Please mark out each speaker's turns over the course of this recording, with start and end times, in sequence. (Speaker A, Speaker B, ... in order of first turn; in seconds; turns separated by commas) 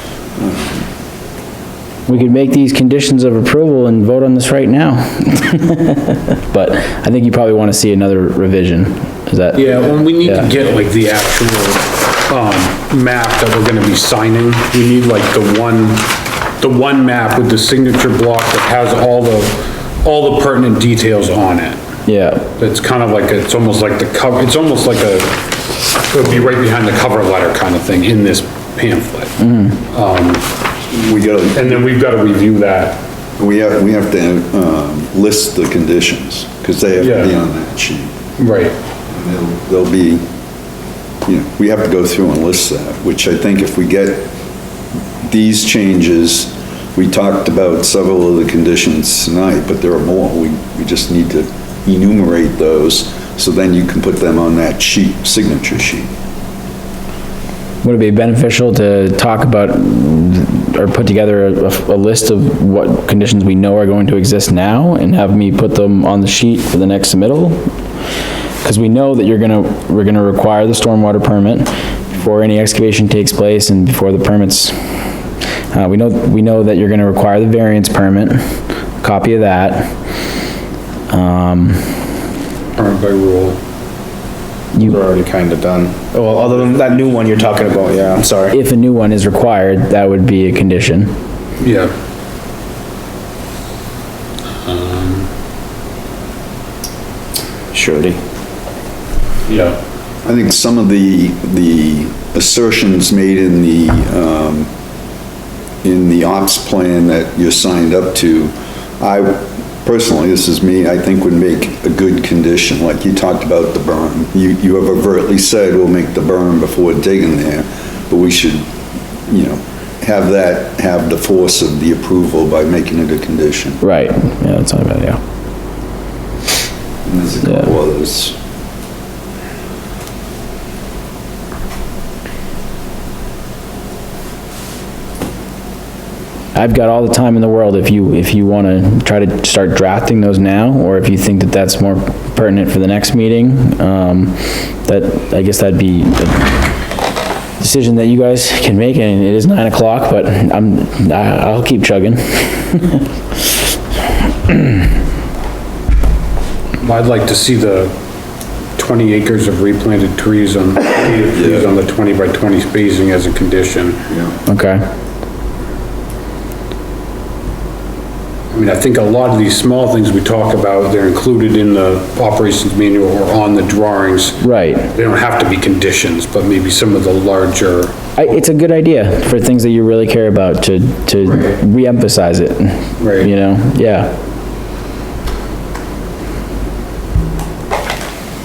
Speaker A: 0.4-0.9, Speaker B: 2.1-10.4, Speaker C: 9.5-21.8, Speaker B: 22.1-22.5, Speaker C: 22.6-25.4, Speaker C: 25.9-30.4, Speaker B: 29.4-29.8, Speaker A: 30.9-31.9, Speaker C: 31.5-33.0, Speaker A: 33.4-38.1, Speaker C: 37.0-37.4, Speaker C: 38.4-38.8, Speaker A: 39.1-40.2, Speaker A: 41.2-44.3, Speaker A: 45.2-56.1, Speaker B: 57.8-67.7, Speaker B: 68.6-75.0, Speaker B: 75.7-79.9, Speaker B: 81.1-82.1, Speaker C: 82.7-83.6, Speaker B: 84.7-85.0, Speaker D: 84.8-88.5, Speaker B: 88.5-91.2, Speaker C: 91.6-91.9, Speaker C: 94.6-95.3, Speaker D: 97.7-98.2, Speaker C: 99.5-99.8, Speaker A: 100.2-104.7, Speaker A: 105.8-118.7, Speaker A: 119.3-123.8, Speaker B: 123.8-125.2, Speaker A: 127.0-128.3, Speaker B: 127.4-127.7, Speaker B: 136.5-146.7, Speaker B: 147.6-153.1, Speaker B: 154.5-154.8, Speaker C: 156.8-157.9, Speaker C: 158.8-164.0, Speaker A: 161.3-161.7, Speaker A: 164.1-164.3, Speaker B: 164.5-164.8, Speaker C: 168.5-177.9, Speaker B: 174.4-174.9, Speaker B: 178.2-184.1, Speaker C: 183.0-183.3